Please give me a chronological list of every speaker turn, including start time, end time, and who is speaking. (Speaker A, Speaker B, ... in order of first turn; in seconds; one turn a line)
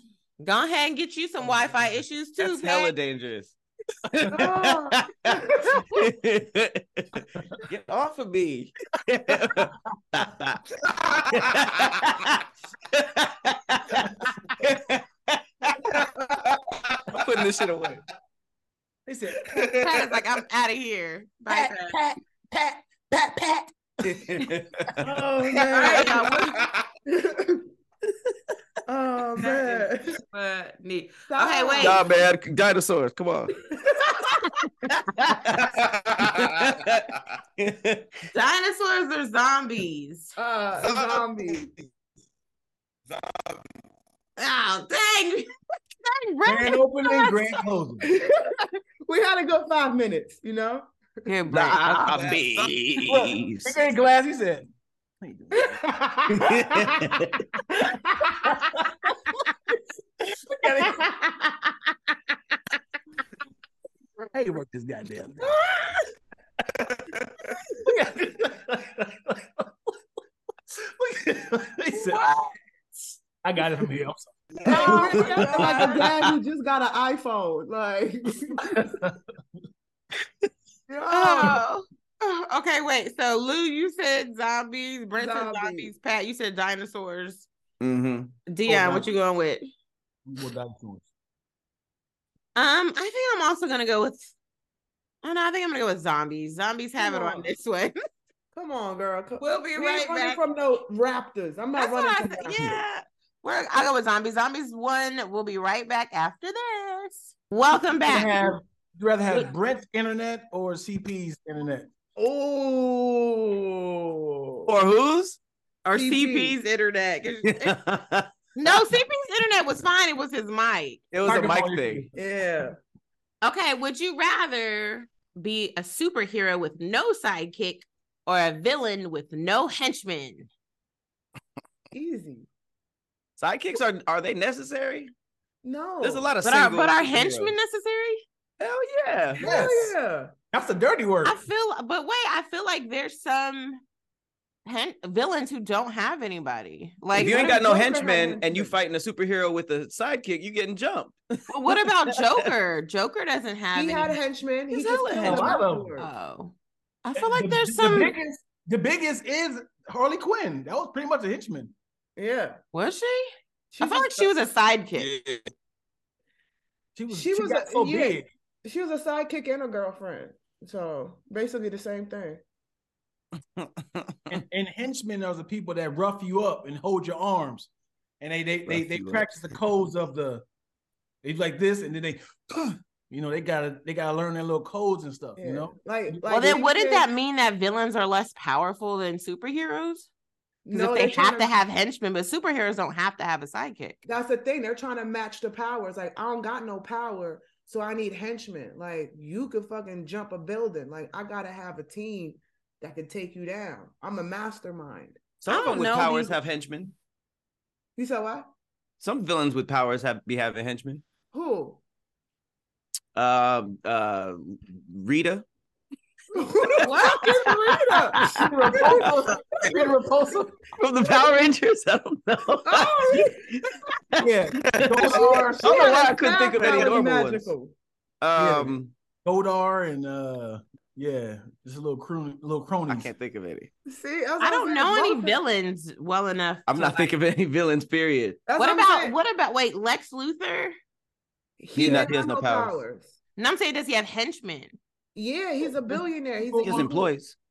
Speaker A: 0.4-2.9
Speaker B: 2.4-3.5
Speaker B: 4.1-10.7
Speaker C: 4.3-6.0
Speaker D: 9.4-9.7
Speaker B: 11.3-16.1
Speaker B: 17.1-18.0
Speaker D: 19.1-19.6
Speaker E: 19.5-19.9
Speaker A: 19.6-22.0
Speaker D: 21.5-25.5
Speaker B: 24.0-25.0
Speaker C: 25.0-26.4
Speaker A: 25.7-26.6
Speaker E: 26.5-26.8
Speaker C: 27.1-27.6
Speaker C: 28.9-30.2
Speaker A: 29.4-32.1
Speaker C: 31.3-32.0
Speaker B: 31.8-33.6
Speaker C: 33.6-34.4
Speaker B: 34.9-38.1
Speaker E: 35.6-36.9
Speaker A: 38.3-40.3
Speaker C: 40.4-41.7
Speaker E: 40.8-41.7
Speaker E: 43.1-43.6
Speaker A: 44.4-45.5
Speaker A: 46.0-47.4
Speaker D: 46.4-48.1
Speaker C: 48.0-50.9
Speaker A: 51.2-52.2
Speaker B: 51.5-53.8
Speaker E: 52.0-52.8
Speaker D: 53.1-54.7
Speaker D: 55.2-55.9
Speaker C: 55.5-57.2
Speaker B: 56.3-57.4
Speaker C: 57.7-58.7
Speaker D: 58.3-59.1
Speaker D: 60.5-61.1
Speaker C: 60.8-61.7
Speaker D: 64.3-65.5
Speaker C: 65.6-66.0
Speaker D: 67.8-69.7
Speaker D: 70.7-72.2
Speaker A: 71.9-72.5
Speaker D: 73.4-76.0
Speaker A: 74.6-76.0
Speaker C: 74.7-78.8
Speaker D: 78.6-79.2
Speaker C: 80.9-81.6
Speaker A: 81.1-87.5
Speaker C: 85.1-85.9
Speaker B: 87.8-88.3
Speaker A: 88.5-89.7
Speaker D: 88.7-89.1
Speaker D: 90.2-91.1
Speaker A: 92.5-94.3
Speaker A: 95.2-98.0
Speaker C: 97.0-97.5
Speaker C: 98.5-102.8
Speaker A: 99.4-100.4
Speaker A: 101.8-108.5
Speaker D: 108.0-111.9
Speaker C: 112.2-114.7
Speaker B: 114.7-115.4
Speaker A: 115.8-117.8
Speaker C: 115.9-116.5
Speaker B: 117.5-118.9
Speaker A: 118.5-121.0
Speaker B: 121.1-122.0
Speaker D: 121.2-122.1
Speaker C: 122.1-122.8
Speaker A: 123.4-130.5
Speaker C: 131.9-132.5
Speaker B: 133.4-135.1
Speaker C: 135.6-136.3
Speaker B: 136.0-137.6
Speaker A: 136.4-138.2
Speaker B: 138.6-139.5
Speaker C: 139.4-140.3
Speaker D: 139.4-139.9
Speaker D: 140.5-141.4
Speaker A: 141.2-143.8
Speaker A: 144.6-147.5
Speaker C: 147.1-148.7
Speaker B: 147.1-152.3
Speaker A: 151.5-154.2
Speaker C: 153.7-156.1
Speaker B: 154.7-155.0
Speaker A: 154.9-158.1
Speaker D: 155.2-155.9
Speaker D: 157.2-161.7
Speaker C: 162.2-162.6
Speaker A: 162.7-165.1
Speaker C: 163.7-164.3
Speaker E: 165.0-165.5
Speaker D: 166.9-168.3
Speaker C: 167.1-172.4
Speaker B: 173.6-174.4
Speaker D: 174.3-177.7
Speaker D: 178.2-180.4
Speaker B: 178.7-179.5
Speaker D: 181.2-186.6
Speaker C: 185.4-187.1
Speaker A: 186.3-190.1
Speaker C: 190.6-191.5
Speaker A: 190.7-194.0
Speaker C: 194.0-205.2
Speaker B: 205.4-206.9
Speaker A: 205.5-206.4
Speaker C: 208.0-208.5
Speaker B: 209.0-211.0
Speaker C: 211.3-211.8
Speaker B: 213.1-215.4
Speaker C: 216.3-219.1
Speaker A: 216.8-217.4
Speaker B: 216.8-218.4
Speaker D: 218.2-220.6
Speaker B: 220.8-227.5
Speaker C: 222.6-223.4
Speaker D: 224.2-226.0
Speaker C: 225.1-227.7
Speaker D: 226.5-226.9
Speaker B: 228.2-228.9
Speaker D: 228.3-233.1
Speaker B: 232.9-233.7
Speaker C: 233.8-235.4
Speaker A: 234.4-237.1
Speaker B: 236.7-238.4
Speaker C: 238.4-239.1
Speaker A: 238.6-240.8
Speaker C: 241.6-243.1
Speaker B: 241.7-242.8
Speaker D: 241.8-242.1
Speaker A: 243.4-244.8
Speaker C: 245.1-247.1
Speaker D: 245.9-246.9
Speaker B: 246.6-247.4